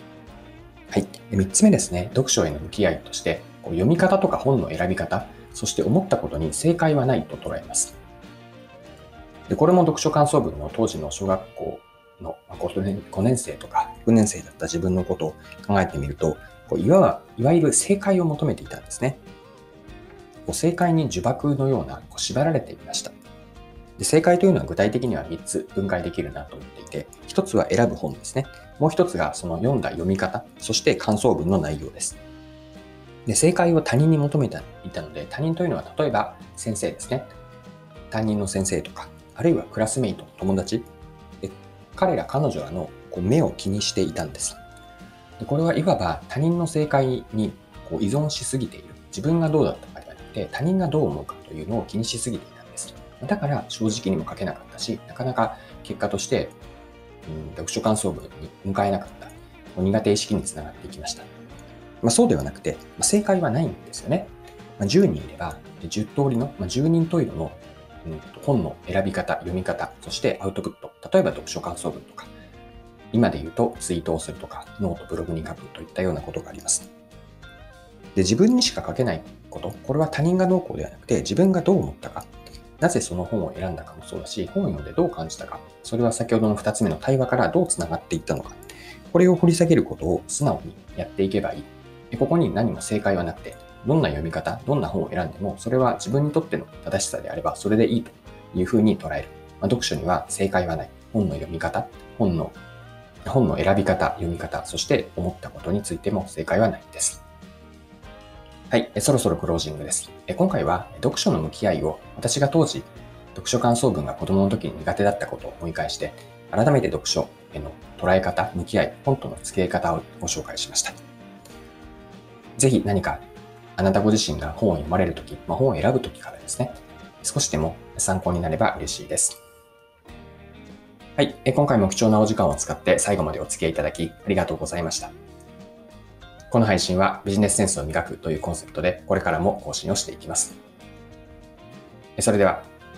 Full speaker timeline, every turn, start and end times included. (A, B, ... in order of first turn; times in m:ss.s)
0:00.9-0:08.0 A
0:09.5-0:19.2 A
0:20.4-0:23.1 A
0:24.0-0:32.2 A
0:33.2-0:37.3 A
0:38.1-0:40.9 A
0:41.4-0:44.6 A
0:45.4-0:56.6 A
0:57.2-1:01.3 A
1:02.0-1:12.3 A
1:13.1-1:16.9 A
1:18.1-1:42.6 A
1:43.2-1:47.2 A
1:48.7-2:01.0 A
2:02.6-2:03.2 A
2:03.8-2:09.4 A
2:11.2-2:15.1 A
2:16.5-2:20.6 A
2:22.2-2:22.7 A